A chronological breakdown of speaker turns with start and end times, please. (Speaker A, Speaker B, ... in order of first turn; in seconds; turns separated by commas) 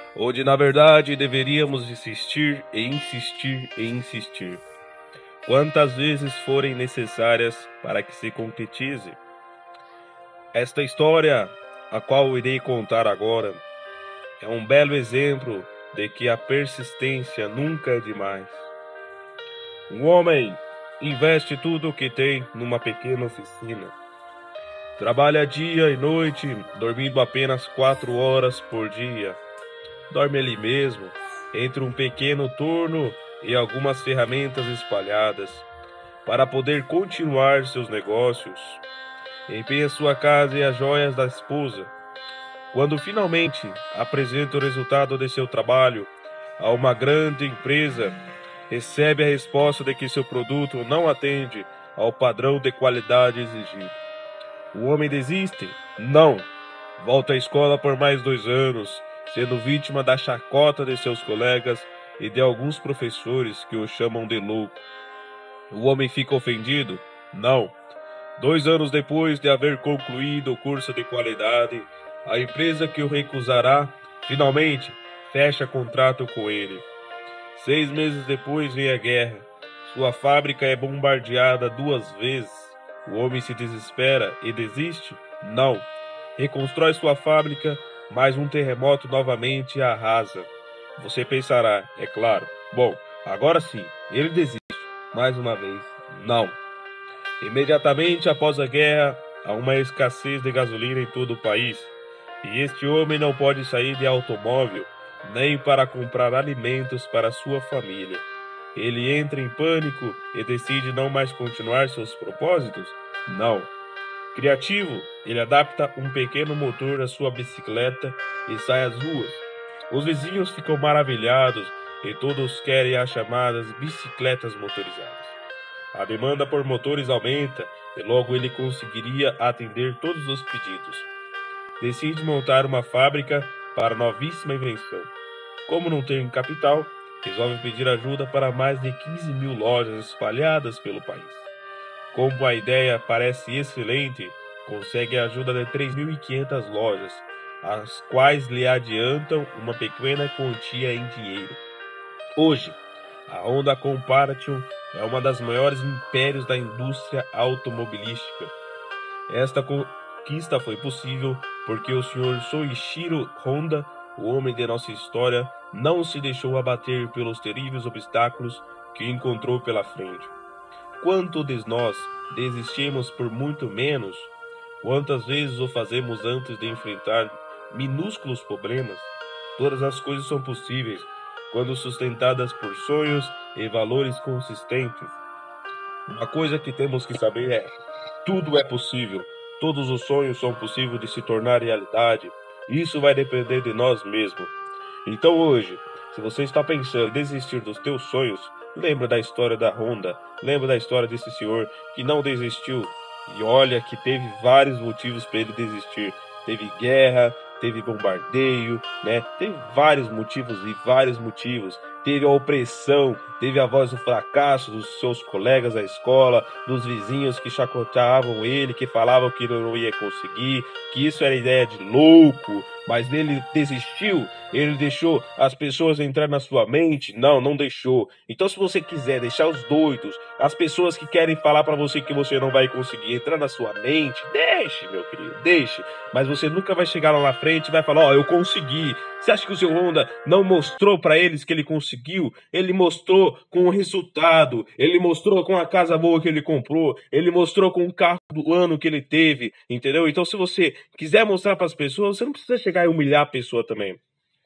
Speaker A: 0.1-4.6, Speaker A: 5.4-9.2, Speaker A: 10.5-13.6, Speaker A: 14.4-18.7, Speaker A: 19.9-23.9, Speaker A: 25.0-29.4, Speaker A: 30.1-35.7, Speaker A: 36.2-38.8, Speaker A: 39.5-41.9, Speaker A: 42.7-48.2, Speaker A: 48.7-54.0, Speaker A: 54.7-64.8, Speaker A: 65.7-67.7, Speaker A: 68.4-76.8, Speaker A: 77.5-96.6, Speaker A: 97.4-113.7, Speaker A: 114.3-125.4, Speaker A: 125.9-131.1, Speaker A: 131.8-135.1, Speaker A: 135.7-141.5, Speaker A: 142.1-151.6, Speaker A: 152.4-158.5, Speaker A: 159.3-170.3, Speaker A: 171.0-185.2, Speaker A: 186.1-187.7, Speaker A: 188.2-194.5, Speaker A: 195.0-254.0